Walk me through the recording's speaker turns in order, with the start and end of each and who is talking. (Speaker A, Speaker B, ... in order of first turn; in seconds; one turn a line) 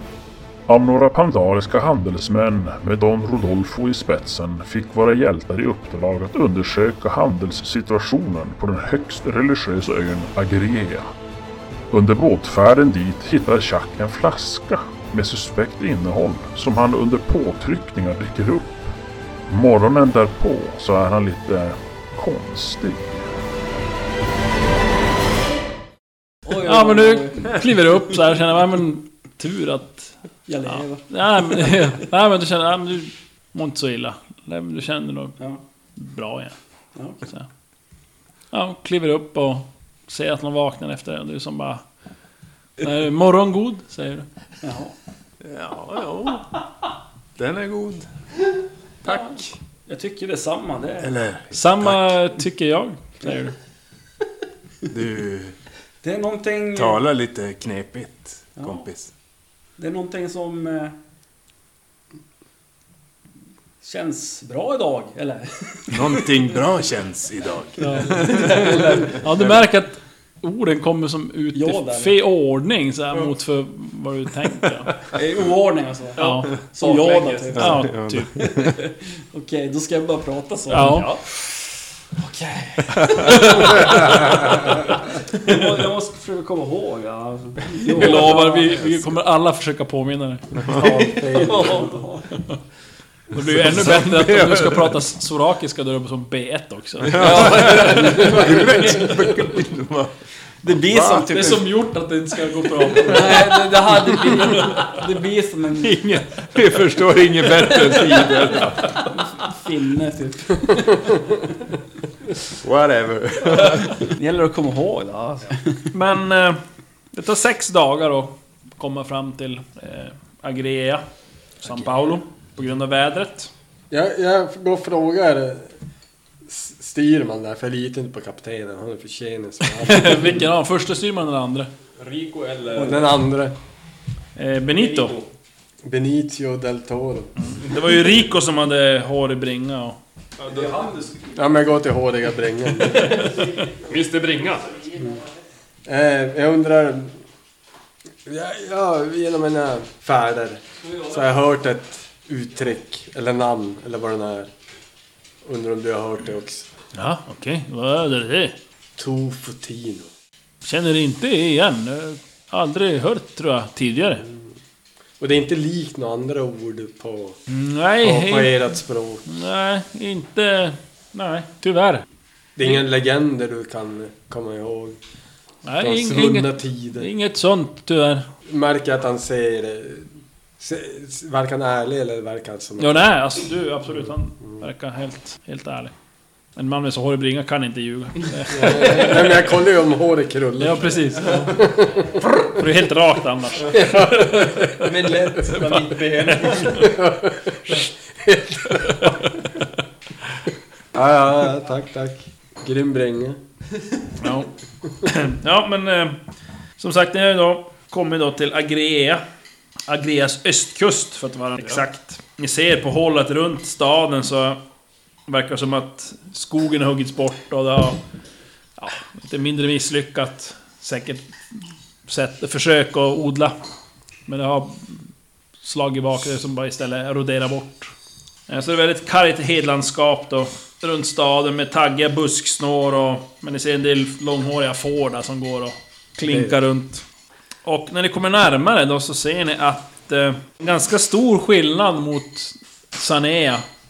Speaker A: 0.7-11.1
Speaker A: 11.9-18.9
Speaker A: 19.5-23.3
Speaker B: 26.4-27.6
Speaker C: 26.6-35.4
Speaker B: 30.5-31.9
Speaker C: 36.0-36.5
Speaker B: 37.0-37.2
Speaker C: 37.2-37.5
Speaker C: 38.5-41.8
Speaker C: 42.8-44.2
Speaker B: 44.6-44.9
Speaker D: 45.4-46.5
Speaker D: 47.4-48.1
Speaker B: 49.0-51.2
Speaker D: 49.1-49.4
Speaker D: 51.0-52.2
Speaker C: 51.5-53.5
Speaker D: 54.9-55.5
Speaker B: 56.0-57.0
Speaker D: 56.7-59.1
Speaker B: 58.6-58.8
Speaker B: 59.8-60.9
Speaker B: 63.8-66.6
Speaker D: 65.9-69.6
Speaker C: 67.8-75.0
Speaker B: 67.9-69.3
Speaker B: 71.5-72.2
Speaker B: 75.1-81.4
Speaker C: 76.2-78.4
Speaker E: 77.2-77.5
Speaker D: 77.6-78.8
Speaker C: 80.7-81.1
Speaker E: 80.8-81.2
Speaker B: 82.2-89.0
Speaker D: 83.0-83.5
Speaker C: 87.9-90.6
Speaker F: 90.7-91.9
Speaker B: 90.8-92.3
Speaker E: 91.3-91.8
Speaker C: 92.3-92.6
Speaker C: 93.3-98.6
Speaker D: 93.4-94.9
Speaker D: 97.0-100.2
Speaker B: 97.2-99.3
Speaker E: 97.4-98.2
Speaker B: 100.6-101.7
Speaker D: 100.8-101.3
Speaker C: 101.2-103.6
Speaker B: 102.9-106.1
Speaker D: 103.4-103.7
Speaker C: 104.2-105.0
Speaker D: 105.8-108.9
Speaker E: 107.4-108.5
Speaker B: 109.4-111.4
Speaker D: 112.6-114.0
Speaker B: 113.7-115.9
Speaker C: 115.9-116.6
Speaker C: 117.1-121.0
Speaker C: 121.6-123.5
Speaker F: 123.9-125.7
Speaker F: 126.5-130.4
Speaker C: 129.8-131.7
Speaker E: 132.0-133.1
Speaker F: 132.8-133.5
Speaker C: 134.4-135.2
Speaker E: 134.8-135.3
Speaker F: 135.8-137.3
Speaker C: 137.4-140.0
Speaker E: 140.4-140.9
Speaker B: 140.5-141.3
Speaker F: 141.3-143.2
Speaker E: 143.0-144.7
Speaker F: 145.8-147.2
Speaker F: 148.2-154.5
Speaker F: 155.4-156.7
Speaker C: 156.9-158.6
Speaker F: 159.0-160.1
Speaker C: 160.6-164.2
Speaker F: 165.2-167.4
Speaker C: 167.5-168.7
Speaker F: 168.0-169.3
Speaker C: 169.3-172.1
Speaker F: 172.6-175.0
Speaker C: 175.7-178.2
Speaker F: 175.8-177.1
Speaker F: 178.5-180.1
Speaker F: 180.6-182.9
Speaker C: 182.8-185.9
Speaker C: 186.6-189.5
Speaker F: 188.5-192.2
Speaker C: 190.6-194.1
Speaker F: 193.7-195.1
Speaker E: 193.7-196.9
Speaker C: 196.4-196.7
Speaker F: 196.7-199.0
Speaker F: 200.9-203.4
Speaker C: 204.2-204.5
Speaker C: 205.0-206.2
Speaker C: 206.8-209.2
Speaker C: 209.9-214.6
Speaker C: 215.3-218.0
Speaker C: 218.8-223.5
Speaker C: 224.3-225.1
Speaker C: 225.6-227.9
Speaker C: 228.5-237.0
Speaker F: 236.2-236.5
Speaker C: 237.7-243.7